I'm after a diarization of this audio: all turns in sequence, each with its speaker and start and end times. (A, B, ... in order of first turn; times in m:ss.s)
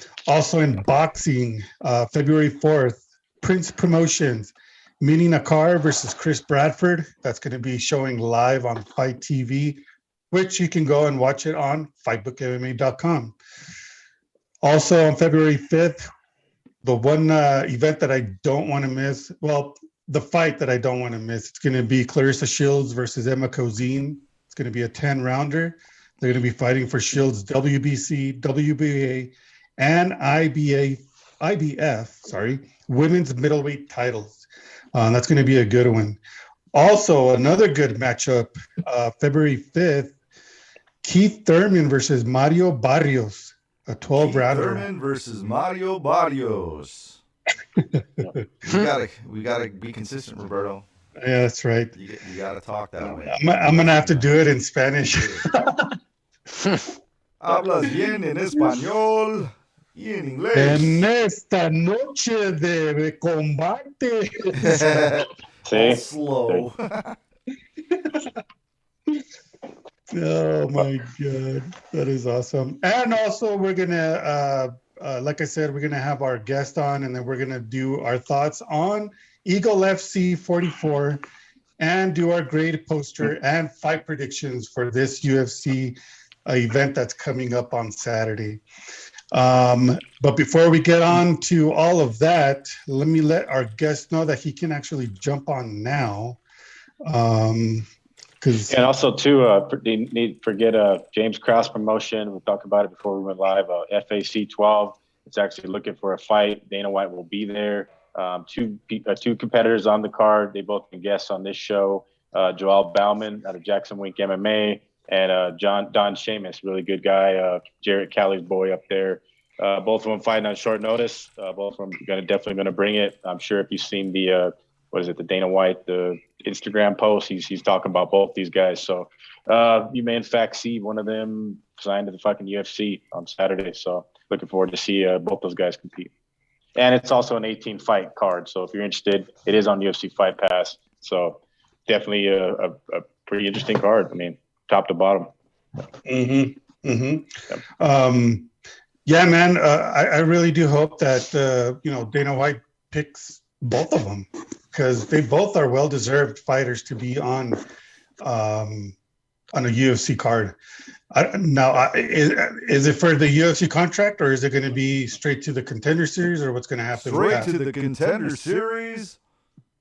0:00.3-0:09.8 A
0:10.3-0:13.3 A
0:14.6-0:16.0 A
0:16.8-0:34.4 A
0:34.9-0:36.2 A
0:36.7-0:40.1 A
0:41.0-0:44.8 A
0:44.2-0:47.2 B
0:47.8-0:48.2 A
0:48.6-0:50.8 B
0:51.2-0:51.9 A
0:51.9-0:54.3 B
0:53.2-0:55.9 A
0:55.1-0:55.5 B
0:57.4-1:01.0 B
1:00.5-1:05.1 A
1:04.5-1:07.2 B
1:05.6-1:06.7 C
1:07.9-1:08.3 A
1:10.1-1:21.2 A
1:21.8-1:28.6 A
1:29.3-1:36.4 A
1:37.0-1:37.9 A
1:38.4-1:38.8 A
1:38.7-2:16.1 C
2:16.8-2:25.3 C
2:26.0-2:28.5 A
2:29.0-2:37.6 A
2:38.2-2:38.9 A
2:39.5-2:40.6 A
2:41.1-2:47.5 A
2:46.9-2:49.2 B